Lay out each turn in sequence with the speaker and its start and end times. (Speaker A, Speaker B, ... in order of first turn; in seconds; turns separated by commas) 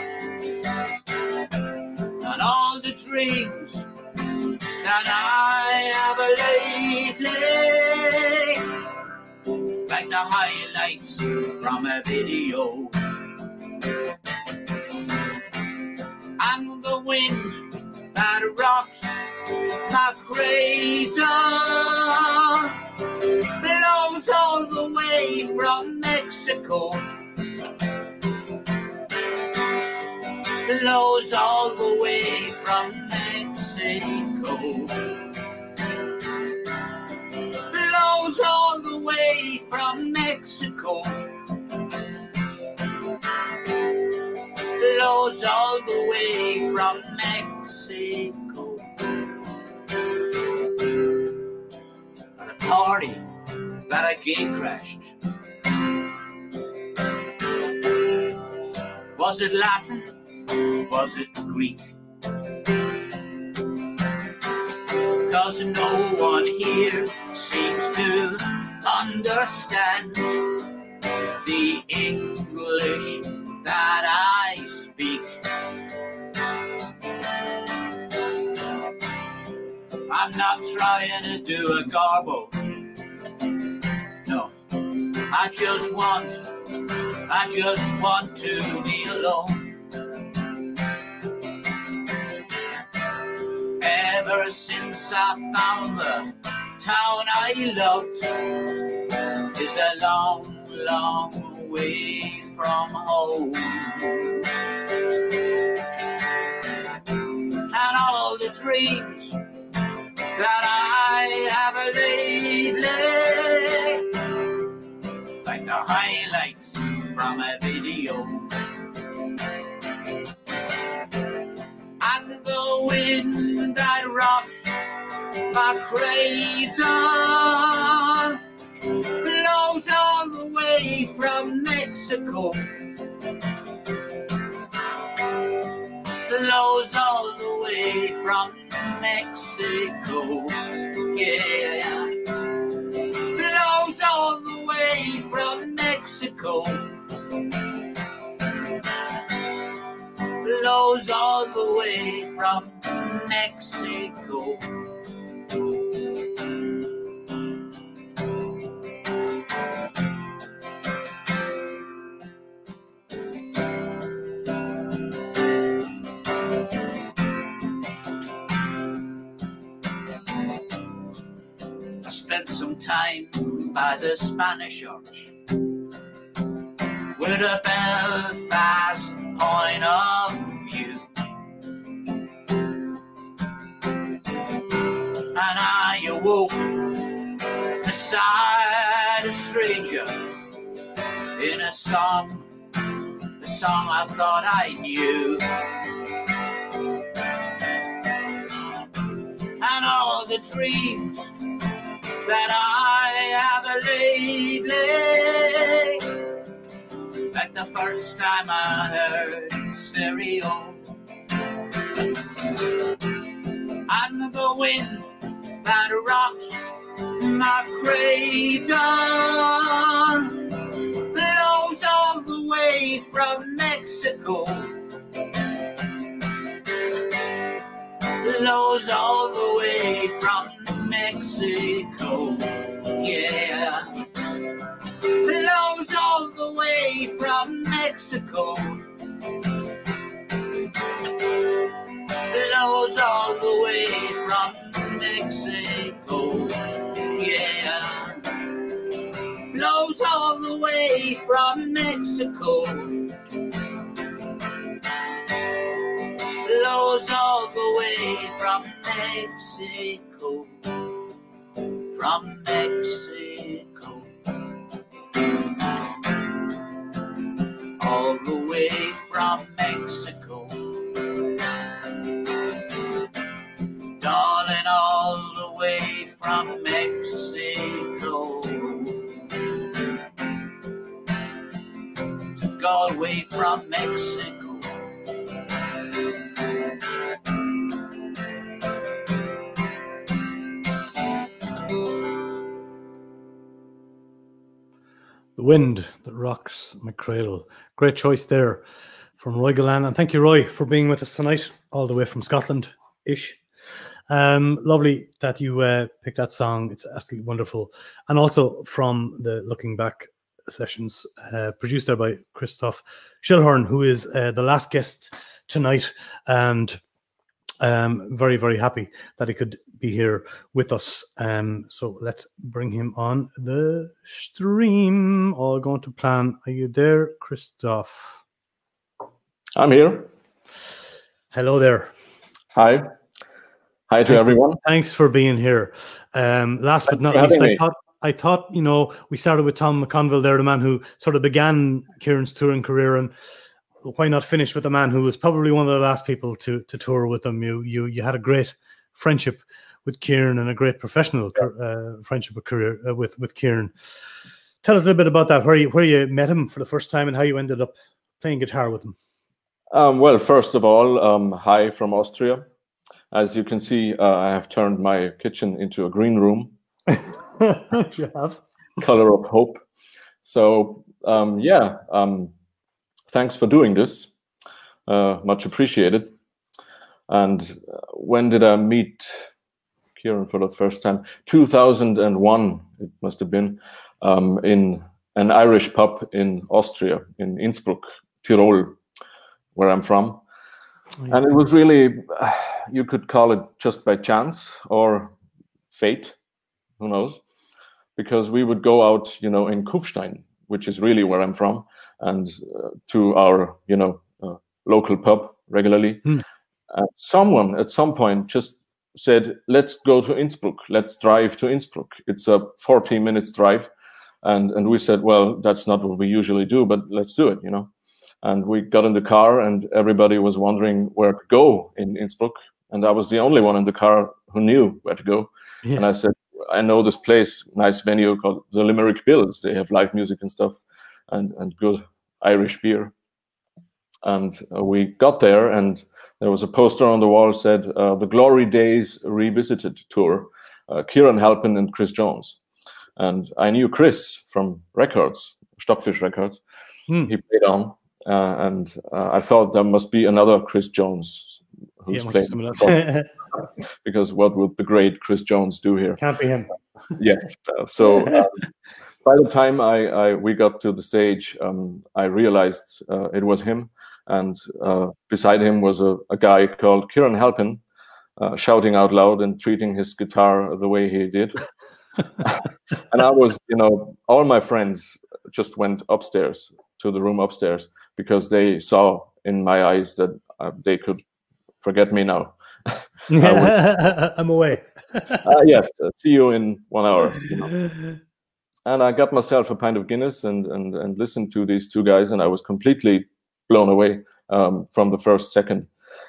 Speaker A: 2.2-3.9, Speaker A: 4.8-8.7, Speaker A: 9.8-13.0, Speaker A: 16.4-22.8, Speaker A: 23.6-27.1, Speaker A: 30.6-35.2, Speaker A: 37.7-41.3, Speaker A: 44.8-48.9, Speaker A: 52.4-53.3, Speaker A: 53.8-55.1, Speaker A: 59.2-61.9, Speaker A: 65.2-70.6, Speaker A: 71.4-75.4, Speaker A: 80.1-82.8, Speaker A: 84.3-84.5, Speaker A: 85.3-86.5, Speaker A: 87.2-89.8, Speaker A: 93.8-98.9, Speaker A: 99.5-104.4, Speaker A: 107.7-109.4, Speaker A: 110.3-114.0, Speaker A: 115.4-118.5, Speaker A: 122.0-124.7, Speaker A: 125.5-128.4, Speaker A: 129.2-132.7, Speaker A: 136.3-142.2, Speaker A: 143.3-146.9, Speaker A: 150.4-154.6, Speaker A: 172.0-175.3, Speaker A: 177.2-181.1, Speaker A: 185.3-187.1, Speaker A: 187.8-190.3, Speaker A: 191.4-192.5, Speaker A: 193.4-195.6, Speaker A: 199.6-201.3, Speaker A: 202.2-206.1, Speaker A: 207.3-210.8, Speaker A: 213.9-224.7, Speaker A: 228.2-233.9, Speaker A: 235.2-238.8, Speaker A: 242.3-248.3, Speaker A: 249.5-253.1, Speaker A: 256.4-260.5, Speaker A: 261.9-264.1, Speaker A: 267.8-270.8, Speaker A: 274.0-279.1, Speaker A: 282.4-284.7, Speaker B: 295.4-298.6, Speaker B: 299.2-303.4, Speaker B: 304.1-316.8, Speaker B: 317.6-328.2, Speaker C: 329.6-330.1, Speaker B: 331.3-331.9, Speaker C: 332.6-332.9, Speaker C: 333.9-334.6, Speaker B: 334.1-343.1, Speaker C: 336.9-337.6, Speaker B: 343.8-353.7, Speaker B: 354.6-359.0, Speaker C: 359.7-362.5, Speaker C: 363.1-366.5, Speaker B: 366.9-368.4, Speaker C: 368.8-369.6, Speaker C: 370.2-372.3, Speaker C: 373.1-374.1, Speaker C: 374.9-376.1, Speaker C: 377.1-379.1, Speaker C: 380.0-388.8, Speaker C: 389.6-390.2, Speaker C: 391.1-395.1, Speaker C: 395.7-396.2, Speaker C: 396.8-397.2, Speaker C: 398.0-406.1, Speaker C: 406.7-413.7, Speaker C: 414.2-417.7, Speaker C: 418.2-430.6, Speaker C: 431.1-432.9, Speaker C: 434.0-442.4, Speaker C: 443.0-446.4, Speaker C: 447.0-453.0, Speaker B: 451.9-453.1, Speaker C: 453.8-456.0, Speaker B: 456.0-456.5, Speaker C: 456.9-458.4, Speaker B: 457.9-458.2, Speaker C: 459.0-467.6, Speaker C: 468.2-471.4, Speaker C: 472.2-481.0, Speaker C: 481.6-483.6, Speaker B: 483.1-485.2, Speaker C: 485.2-487.8, Speaker C: 488.7-495.7